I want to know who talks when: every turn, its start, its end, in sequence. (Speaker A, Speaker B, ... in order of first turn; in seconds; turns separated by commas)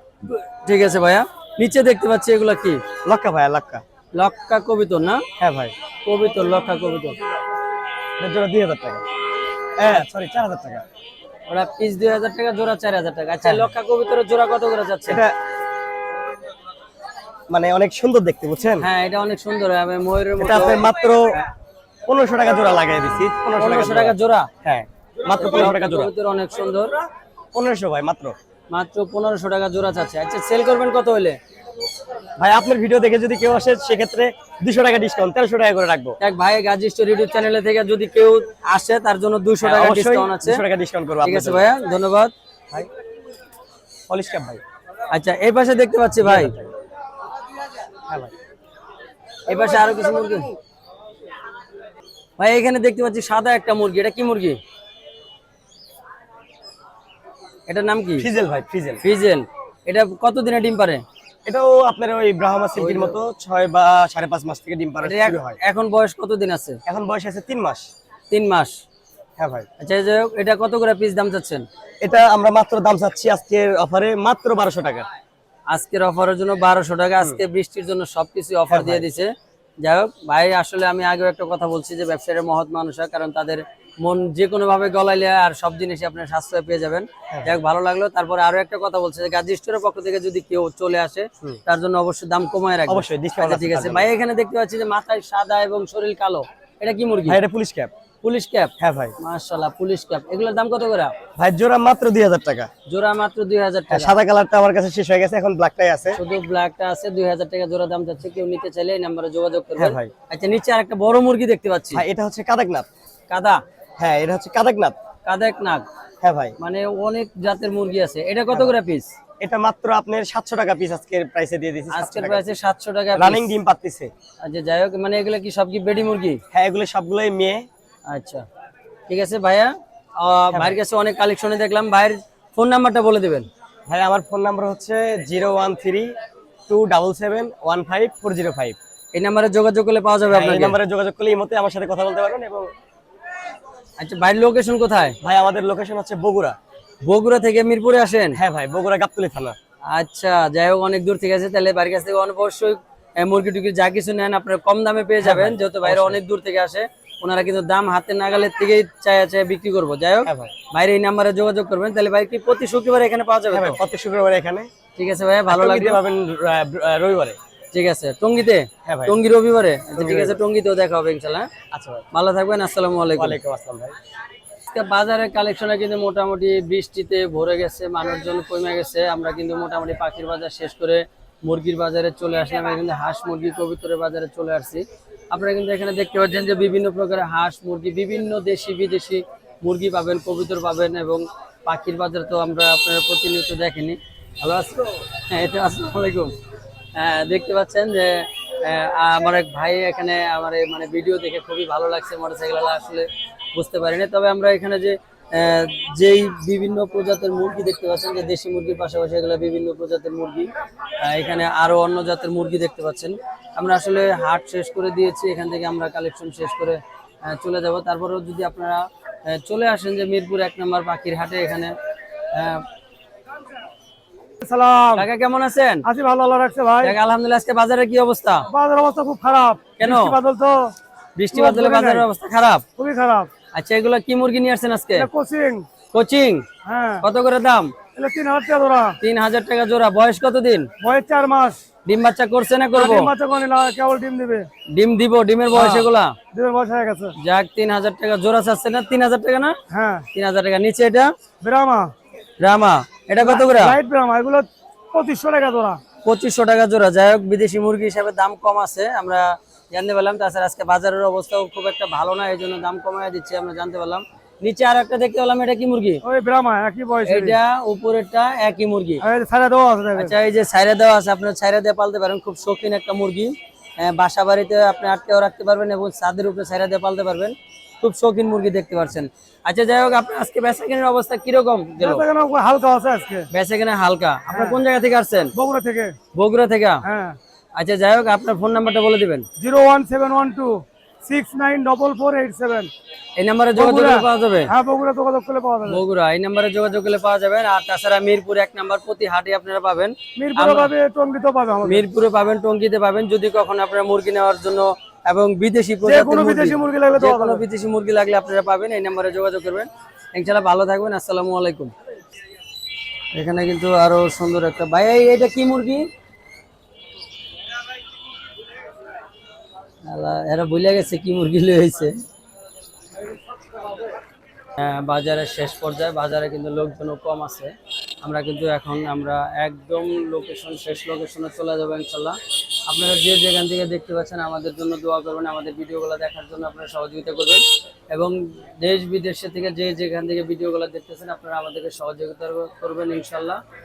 Speaker A: 0.2-2.8, Speaker B: 3.1-3.8, Speaker A: 4.2-5.2, Speaker B: 5.4-5.7, Speaker A: 6.0-7.2, Speaker B: 8.2-9.1, Speaker B: 9.8-10.8, Speaker A: 11.5-15.2, Speaker B: 17.5-18.9, Speaker A: 18.8-20.9, Speaker B: 20.4-21.2, Speaker B: 22.1-24.1, Speaker A: 23.6-24.5, Speaker B: 24.6-26.1, Speaker A: 25.3-26.9, Speaker B: 27.5-28.4, Speaker A: 28.7-31.4, Speaker B: 32.4-36.2, Speaker A: 36.2-40.6, Speaker B: 39.6-41.6, Speaker A: 41.2-42.3, Speaker B: 44.1-44.6, Speaker A: 45.1-46.6, Speaker B: 46.2-46.7, Speaker A: 49.5-50.5, Speaker A: 52.4-54.6, Speaker A: 57.7-58.3, Speaker B: 58.2-59.0, Speaker A: 59.0-61.0, Speaker B: 61.5-65.6, Speaker A: 62.8-63.2, Speaker A: 65.0-66.8, Speaker B: 66.9-67.9, Speaker A: 68.3-68.8, Speaker B: 69.4-69.7, Speaker A: 69.8-71.7, Speaker B: 72.0-75.1, Speaker A: 75.7-97.4, Speaker B: 78.7-79.0, Speaker B: 92.9-94.0, Speaker B: 97.3-97.9, Speaker A: 98.2-101.1, Speaker B: 98.8-99.1, Speaker B: 101.4-102.7, Speaker A: 102.9-104.2, Speaker B: 103.9-106.2, Speaker A: 106.1-112.0, Speaker B: 109.8-110.1, Speaker B: 112.0-112.9, Speaker A: 113.3-113.6, Speaker B: 114.0-115.0, Speaker A: 115.2-115.9, Speaker B: 116.2-116.5, Speaker A: 116.6-119.1, Speaker B: 119.4-122.4, Speaker A: 121.9-123.6, Speaker B: 123.2-124.1, Speaker A: 124.4-126.4, Speaker B: 126.5-127.7, Speaker A: 128.1-128.4, Speaker A: 129.1-133.5, Speaker B: 133.9-136.1, Speaker B: 136.7-138.8, Speaker A: 139.1-140.8, Speaker B: 140.3-142.7, Speaker A: 144.0-145.2, Speaker B: 145.2-146.6, Speaker A: 147.0-148.4, Speaker B: 148.4-149.6, Speaker A: 149.9-163.8, Speaker B: 155.2-156.0, Speaker B: 163.5-164.7, Speaker A: 165.0-166.0, Speaker B: 165.5-167.4, Speaker A: 167.7-171.5, Speaker B: 171.7-172.1, Speaker A: 172.1-173.4, Speaker B: 173.2-173.9, Speaker A: 174.7-196.3, Speaker A: 196.9-210.5, Speaker A: 211.0-221.7, Speaker A: 222.3-222.6, Speaker C: 224.4-225.1, Speaker A: 224.9-225.9, Speaker C: 225.8-227.0, Speaker A: 226.8-228.5, Speaker C: 228.5-230.8, Speaker A: 229.8-230.2, Speaker A: 231.2-232.6, Speaker C: 231.3-232.1, Speaker C: 232.8-233.3, Speaker A: 233.5-235.1, Speaker C: 235.0-235.7, Speaker A: 235.9-236.4, Speaker C: 236.7-237.1, Speaker A: 237.0-237.7, Speaker C: 238.0-239.0, Speaker A: 239.0-240.7, Speaker C: 240.8-241.6, Speaker A: 241.9-243.1, Speaker C: 242.7-244.5, Speaker A: 244.7-246.2, Speaker C: 245.5-247.2, Speaker A: 247.2-249.6, Speaker C: 249.7-250.1, Speaker A: 250.1-251.1, Speaker C: 251.4-251.9, Speaker A: 252.4-253.8, Speaker C: 253.2-255.8, Speaker A: 256.1-266.0, Speaker C: 266.0-267.4, Speaker A: 267.1-269.0, Speaker C: 269.0-270.1, Speaker A: 269.9-282.1, Speaker C: 281.8-283.3, Speaker A: 283.3-285.3, Speaker C: 284.3-284.6, Speaker C: 285.4-286.0, Speaker A: 286.1-286.9, Speaker C: 286.8-287.2, Speaker A: 287.6-289.3, Speaker C: 289.4-292.7, Speaker A: 293.2-294.5, Speaker C: 293.6-295.8, Speaker A: 295.6-300.7, Speaker C: 300.2-301.9, Speaker A: 301.6-311.7, Speaker C: 305.8-307.4, Speaker A: 313.1-315.9, Speaker A: 319.8-321.9, Speaker A: 324.6-332.2, Speaker A: 332.7-343.4